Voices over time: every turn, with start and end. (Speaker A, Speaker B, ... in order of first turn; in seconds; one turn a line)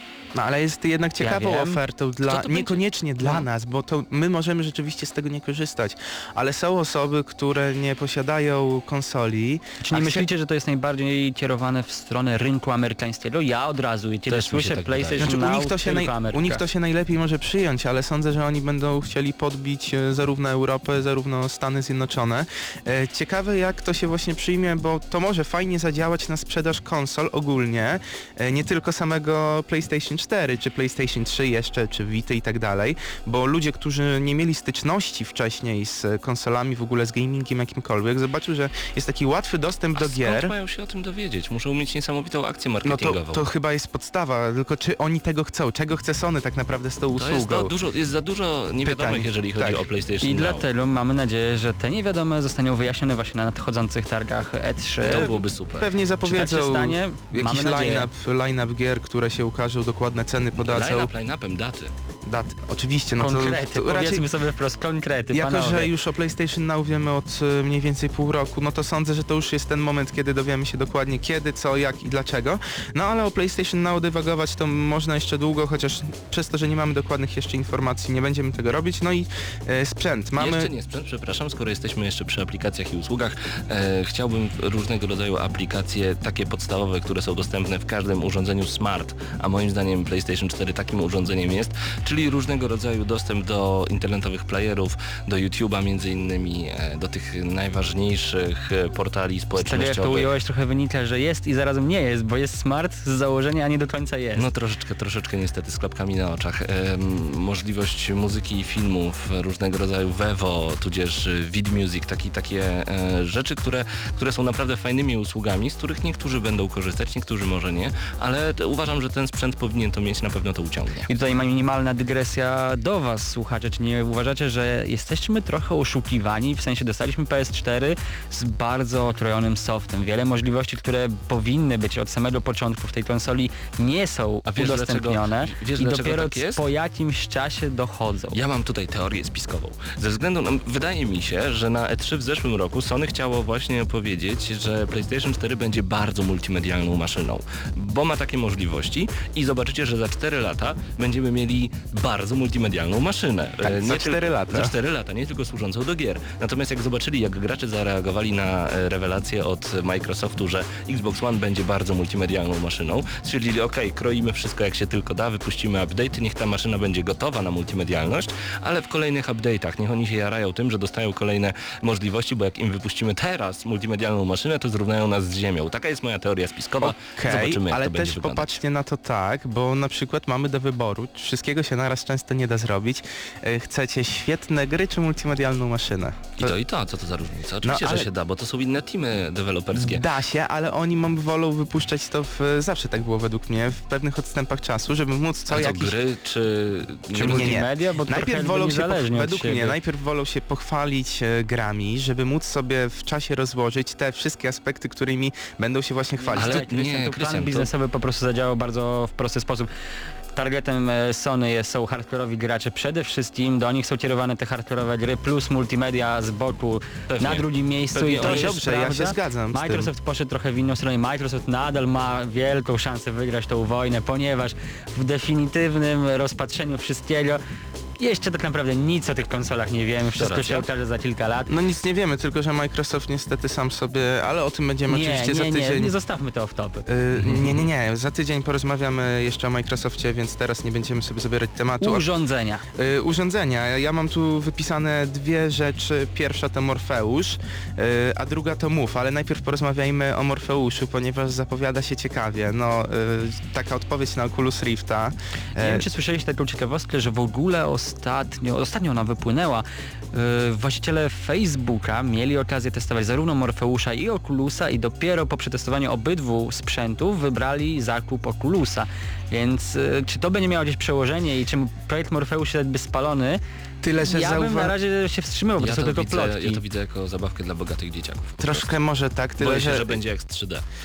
Speaker A: 0.3-10.3
Speaker B: 1.2-1.8
Speaker C: 2.2-3.4
Speaker B: 9.8-16.6
Speaker C: 14.3-15.5
Speaker A: 15.2-40.5
Speaker C: 39.9-43.5
Speaker A: 42.8-47.7
Speaker C: 47.1-50.6
Speaker A: 48.8-49.8
Speaker B: 50.2-55.3
Speaker C: 55.0-55.9
Speaker A: 55.0-61.1
Speaker B: 56.2-58.1
Speaker C: 60.6-61.9
Speaker A: 62.2-64.2
Speaker B: 63.2-65.9
Speaker A: 65.3-80.7
Speaker C: 80.3-100.3
Speaker B: 99.5-104.5
Speaker C: 104.3-121.1
Speaker B: 121.1-138.4
Speaker C: 134.4-136.6
Speaker C: 138.3-178.5
Speaker A: 153.6-154.7
Speaker A: 176.8-186.6
Speaker C: 186.4-190.0
Speaker A: 187.6-188.1
Speaker A: 189.7-196.0
Speaker C: 195.5-197.6
Speaker A: 197.1-206.7
Speaker B: 197.2-199.8
Speaker B: 206.2-209.7
Speaker C: 206.3-207.7
Speaker B: 210.3-227.4
Speaker C: 217.1-218.6
Speaker A: 218.2-219.9
Speaker B: 228.0-231.5
Speaker C: 230.1-230.7
Speaker A: 231.5-235.9
Speaker B: 234.9-236.8
Speaker A: 236.9-242.1
Speaker C: 237.2-237.6
Speaker B: 241.8-242.6
Speaker A: 242.7-255.8
Speaker B: 255.6-273.4
Speaker A: 273.8-274.7
Speaker B: 274.0-276.6
Speaker C: 275.6-278.7
Speaker A: 278.4-280.0
Speaker C: 279.4-280.6